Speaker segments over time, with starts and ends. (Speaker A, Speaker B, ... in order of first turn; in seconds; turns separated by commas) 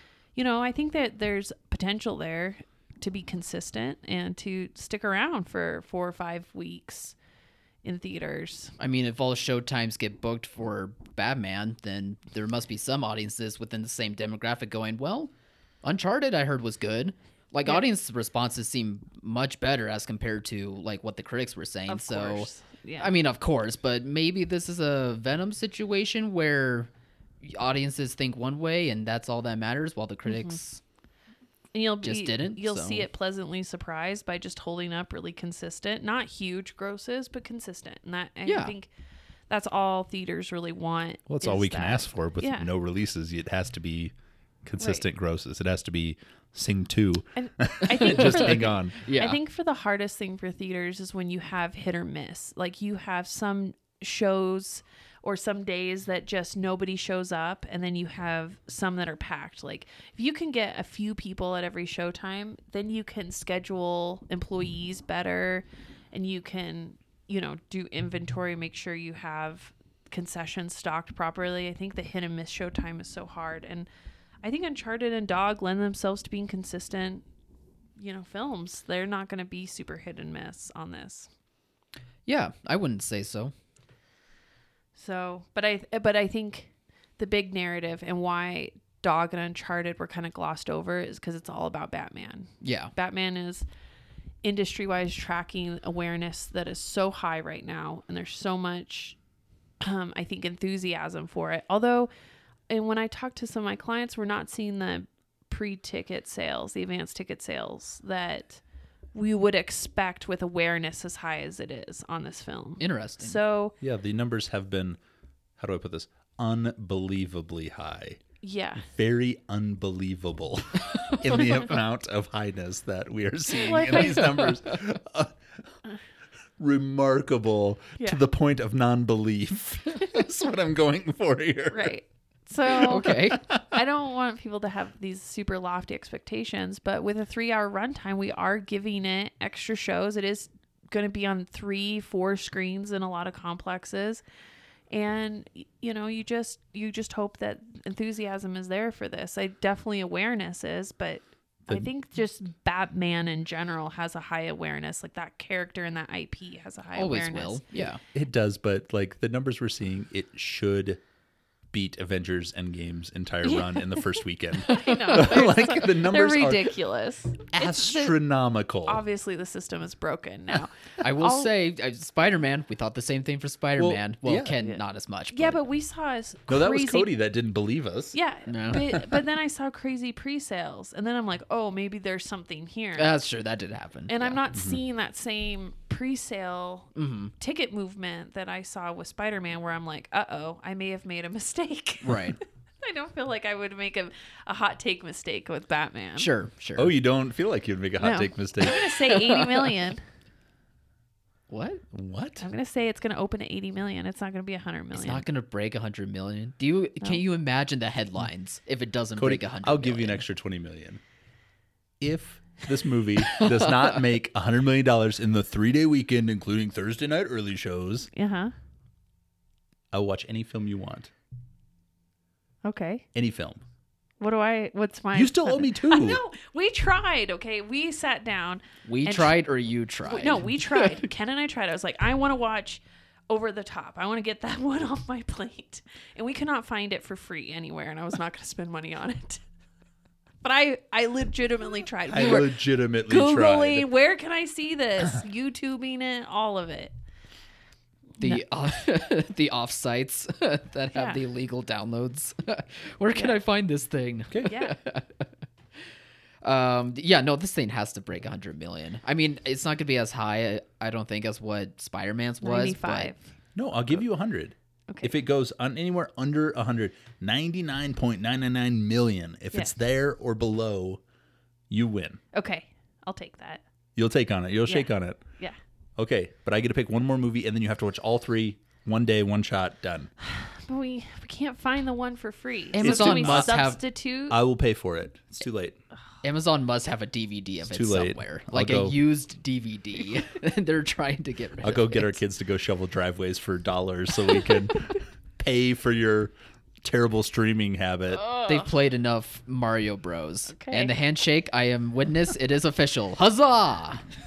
Speaker A: 0.3-7.2, Speaker A: 7.8-8.7, Speaker B: 8.8-15.3, Speaker B: 15.8-22.5, Speaker A: 21.9-23.1, Speaker B: 23.0-26.9, Speaker B: 27.4-30.8, Speaker A: 30.3-30.6, Speaker A: 31.7-38.9, Speaker B: 32.0-33.1, Speaker B: 38.5-38.7, Speaker A: 39.5-42.7, Speaker C: 41.3-44.1, Speaker C: 44.6-49.0, Speaker A: 47.4-73.9, Speaker B: 48.0-49.4, Speaker A: 74.4-77.2, Speaker A: 78.0-81.3, Speaker B: 82.2-83.5, Speaker A: 84.9-93.6, Speaker B: 92.6-92.9, Speaker A: 94.4-99.2, Speaker A: 99.8-102.1, Speaker A: 102.7-108.6, Speaker A: 109.1-113.8, Speaker B: 112.8-113.4, Speaker C: 113.8-115.0, Speaker C: 115.6-118.2, Speaker A: 118.4-118.8, Speaker C: 118.8-125.3, Speaker A: 123.5-124.6, Speaker C: 126.6-131.9, Speaker A: 131.7-144.2, Speaker B: 132.7-133.4, Speaker A: 144.9-157.6, Speaker B: 156.9-158.0, Speaker C: 158.1-161.0, Speaker C: 161.7-166.8, Speaker A: 163.4-164.1, Speaker A: 164.6-168.2, Speaker B: 164.7-165.4, Speaker C: 167.5-169.0, Speaker A: 168.8-171.5, Speaker B: 171.0-175.6, Speaker C: 173.8-174.6, Speaker A: 175.3-177.1, Speaker C: 176.5-178.2, Speaker A: 178.1-183.1, Speaker B: 178.5-179.1, Speaker B: 182.9-184.4, Speaker A: 184.1-196.3, Speaker C: 184.5-184.8, Speaker B: 186.9-187.3, Speaker B: 192.0-192.4, Speaker B: 196.2-196.9, Speaker C: 196.8-199.0, Speaker A: 198.0-200.0, Speaker B: 199.1-199.7, Speaker B: 201.5-201.8, Speaker C: 201.9-202.4, Speaker A: 202.4-205.2, Speaker B: 204.9-210.2, Speaker C: 209.2-211.0, Speaker C: 212.0-218.1, Speaker B: 213.2-214.0, Speaker A: 218.1-218.5, Speaker C: 219.9-221.1, Speaker A: 222.6-223.0, Speaker C: 223.1-223.6, Speaker A: 224.2-229.3, Speaker C: 225.1-226.2, Speaker B: 228.8-230.9, Speaker A: 230.0-239.4, Speaker A: 240.4-246.9, Speaker C: 242.1-243.9, Speaker B: 248.2-255.3, Speaker A: 250.9-251.2, Speaker A: 254.4-254.8, Speaker B: 256.4-263.1, Speaker A: 262.4-263.3, Speaker C: 263.5-271.0, Speaker A: 264.9-265.1, Speaker C: 271.7-272.2, Speaker A: 272.3-273.6, Speaker C: 273.9-275.2, Speaker A: 274.6-275.6, Speaker C: 276.0-280.1, Speaker A: 280.2-284.4, Speaker B: 282.7-283.8, Speaker C: 282.8-285.8, Speaker B: 286.2-292.2, Speaker C: 287.7-288.9, Speaker C: 291.6-298.3, Speaker A: 298.2-298.7, Speaker B: 298.4-304.0, Speaker A: 300.5-300.9